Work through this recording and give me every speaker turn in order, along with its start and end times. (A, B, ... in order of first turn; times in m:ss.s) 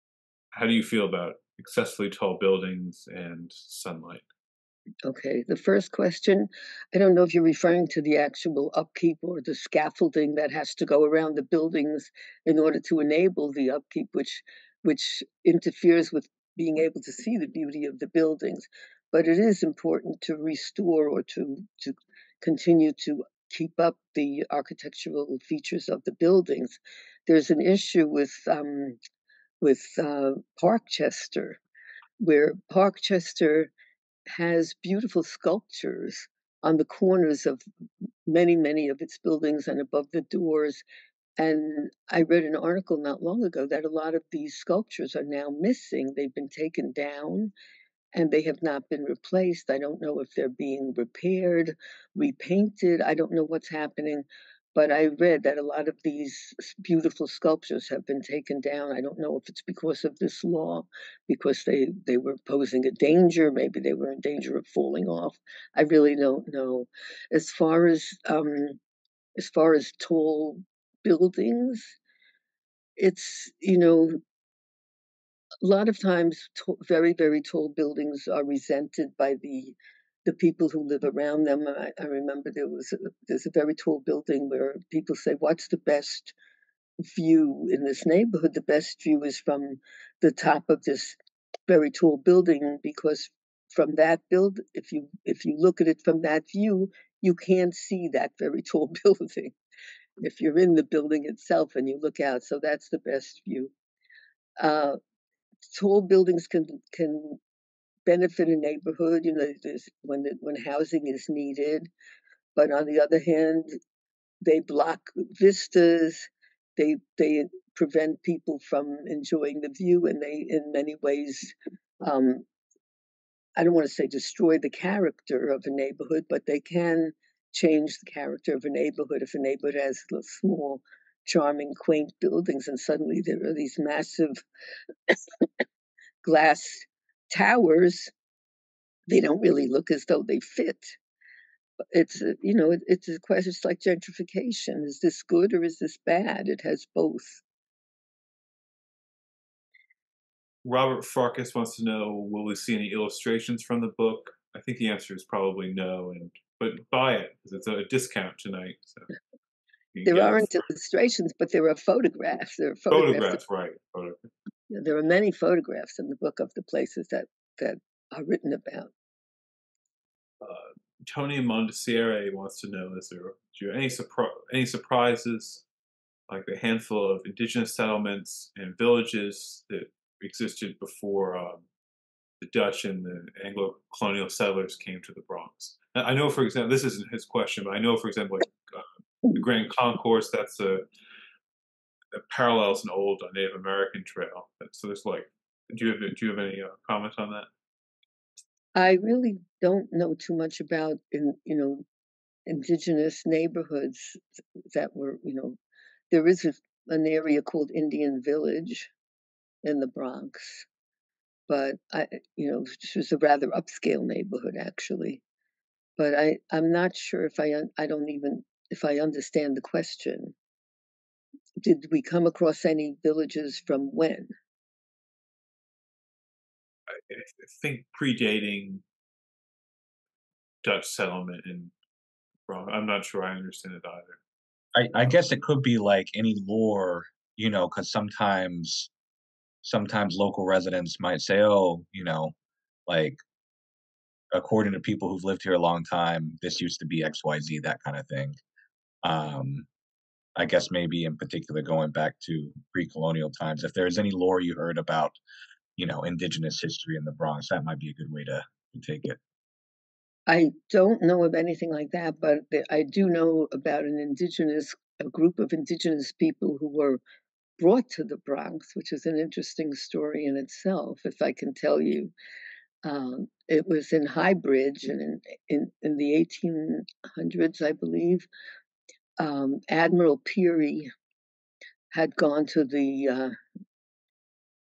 0:00.5-0:04.2 A
0:05.0-0:29.0 B
0:29.6-0:31.6 B
0:32.2-0:33.7 B
0:34.3-0:37.6 B
0:38.3-0:40.8 B
0:41.4-0:47.5 B
0:48.2-1:08.8 B
1:09.4-1:12.0 B
1:13.0-1:14.2 B
1:15.6-1:26.3 B
1:27.1-1:31.2 B
1:31.7-1:39.6 B
1:40.2-1:43.7 B
1:44.6-1:45.0 B
1:45.7-1:47.4 B
1:48.1-1:51.9 B
1:52.6-1:53.8 B
1:54.4-2:02.4 B
2:03.6-2:14.4 B
2:15.1-2:15.5 B
2:16.2-2:18.1 B
2:19.1-2:21.0 B
2:21.9-2:27.4 B
2:30.6-2:39.1 A
2:39.9-2:40.5 A
2:40.0-2:43.4 B
2:42.9-2:44.3 A
2:44.7-2:48.9 B
2:50.4-2:55.6 A
2:56.3-3:01.6 A
3:02.4-3:10.8 A
3:12.1-3:17.5 A
3:18.8-3:21.8 B
3:22.5-3:24.2 B
3:24.7-3:25.6 B
3:26.1-3:28.9 B
3:29.6-3:30.7 B
3:31.5-3:35.2 B
3:36.0-3:40.4 B
3:41.6-3:44.3 B
3:46.9-3:48.8 A
3:50.6-3:51.7 A
3:52.5-3:54.2 A
3:54.7-3:58.9 C
3:59.6-4:02.3 C
4:02.9-4:03.2 C
4:04.3-4:08.4 C
4:09.0-4:09.7 C
4:10.4-4:15.2 C
4:15.8-4:19.2 C
4:20.3-4:27.0 B
4:27.6-4:32.1 B
4:32.8-4:38.3 B
4:39.2-4:40.9 B
4:41.9-4:43.4 B